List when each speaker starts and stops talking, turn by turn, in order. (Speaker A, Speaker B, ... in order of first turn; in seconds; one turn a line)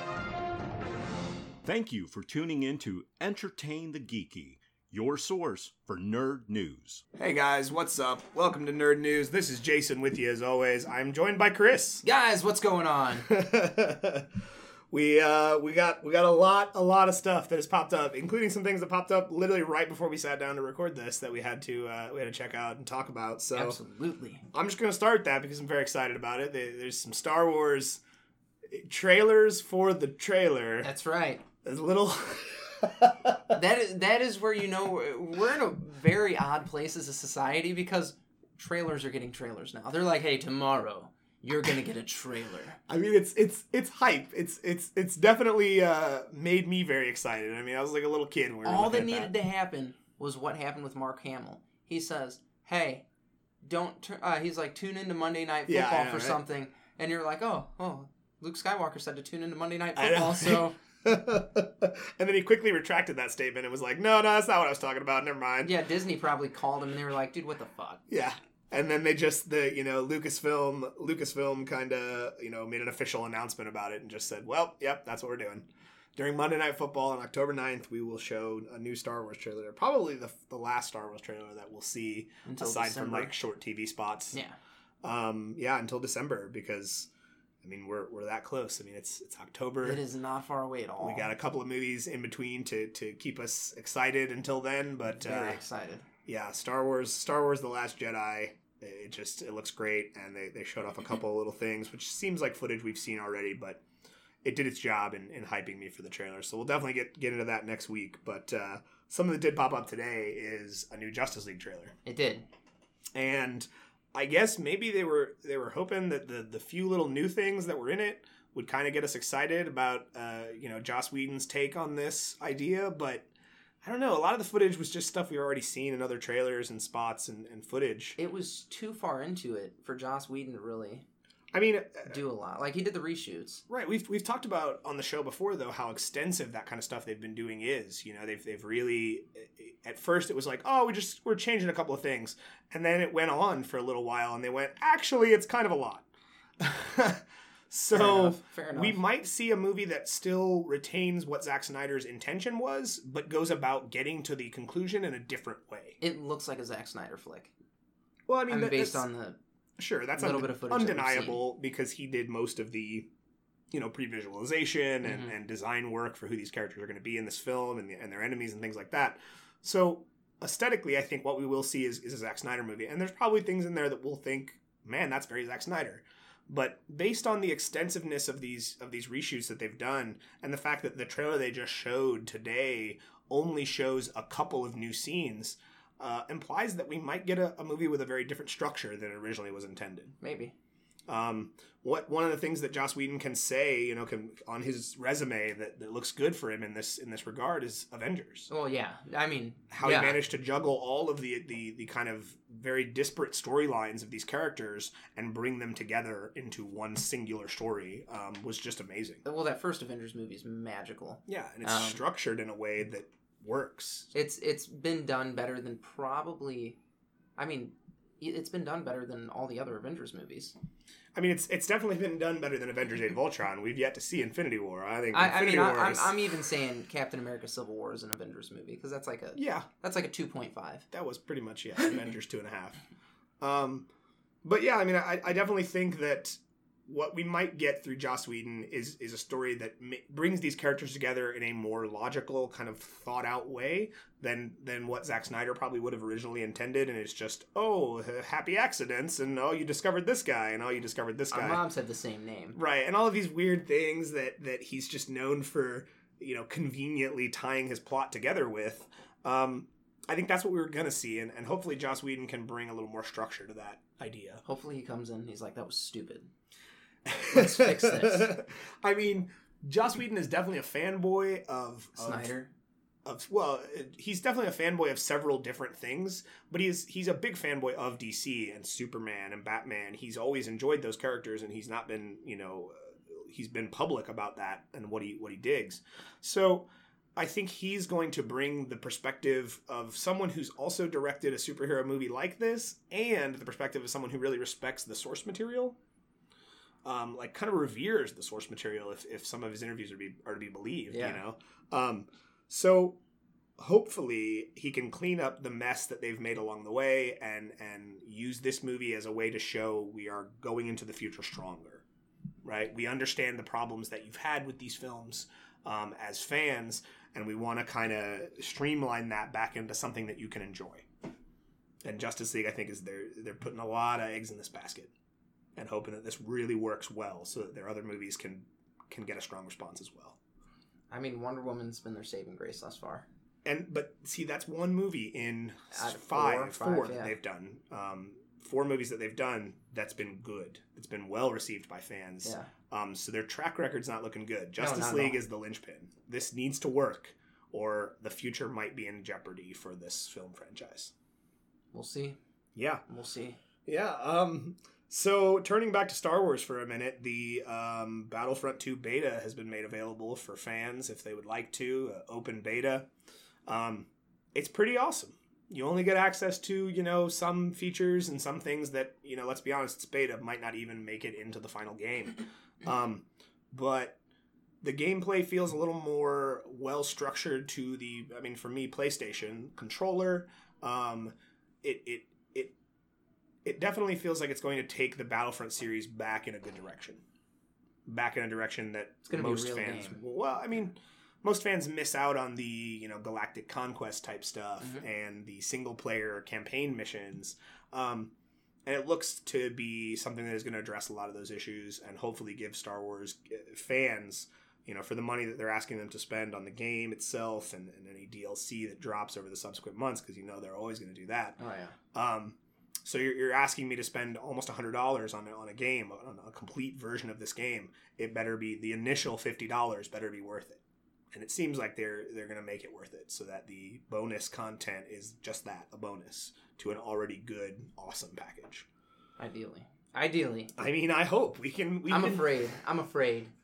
Speaker A: 1.6-7.0
Speaker B: 7.2-12.1
Speaker C: 12.0-13.3
Speaker B: 13.2-14.3
Speaker B: 14.9-23.8
Speaker C: 23.5-24.4
Speaker B: 24.5-28.0
Speaker B: 28.7-30.9
Speaker C: 30.8-31.4
Speaker B: 31.6-33.5
Speaker C: 33.5-42.8
Speaker B: 42.9-49.3
Speaker C: 48.6-53.0
Speaker C: 53.6-60.8
Speaker B: 55.7-56.4
Speaker B: 60.0-65.7
Speaker C: 65.7-68.0
Speaker B: 68.1-84.4
Speaker C: 82.5-83.3
Speaker B: 85.0-87.1
Speaker B: 87.6-90.0
Speaker C: 89.8-91.3
Speaker B: 91.0-95.6
Speaker C: 95.2-96.1
Speaker B: 96.2-103.8
Speaker B: 104.4-112.0
Speaker C: 112.0-112.5
Speaker B: 113.2-123.3
Speaker B: 123.8-128.2
Speaker C: 128.2-131.1
Speaker B: 131.5-132.2
Speaker C: 132.1-133.6
Speaker B: 133.7-146.1
Speaker B: 146.6-156.0
Speaker C: 147.9-149.0
Speaker C: 156.0-157.5
Speaker B: 158.3-159.1
Speaker C: 158.5-159.4
Speaker B: 159.8-163.1
Speaker C: 160.2-161.4
Speaker B: 163.7-190.1
Speaker C: 165.0-165.3
Speaker C: 190.2-190.5
Speaker B: 191.1-198.5
Speaker C: 198.5-200.2
Speaker B: 199.7-209.2
Speaker C: 209.2-212.0
Speaker B: 211.3-214.1
Speaker C: 214.1-216.8
Speaker C: 217.4-220.6
Speaker B: 221.2-226.4
Speaker C: 225.1-230.8
Speaker B: 229.4-229.7
Speaker B: 230.9-232.8
Speaker B: 233.4-233.9
Speaker B: 234.4-251.6
Speaker C: 251.3-252.6
Speaker B: 252.5-264.4
Speaker C: 264.4-266.3
Speaker B: 267.1-272.3
Speaker C: 267.3-268.3
Speaker C: 272.0-272.5
Speaker B: 273.1-295.8
Speaker B: 296.9-303.0
Speaker C: 300.9-301.2
Speaker B: 303.6-311.8
Speaker B: 312.4-320.9
Speaker B: 321.9-324.9
Speaker B: 325.6-330.2
Speaker C: 330.9-333.1
Speaker B: 333.4-350.9
Speaker C: 335.7-337.1
Speaker C: 342.2-342.5
Speaker C: 344.6-345.2
Speaker C: 351.7-352.2
Speaker B: 352.6-352.8
Speaker C: 352.9-353.4
Speaker B: 353.7-362.9
Speaker B: 363.5-374.0
Speaker B: 374.6-382.5
Speaker B: 383.4-387.0
Speaker B: 387.9-398.1
Speaker C: 389.1-390.0
Speaker B: 398.7-411.4
Speaker C: 411.4-411.8
Speaker B: 411.9-420.6
Speaker B: 421.1-428.7
Speaker C: 429.2-430.5
Speaker B: 430.6-432.3
Speaker C: 431.9-433.3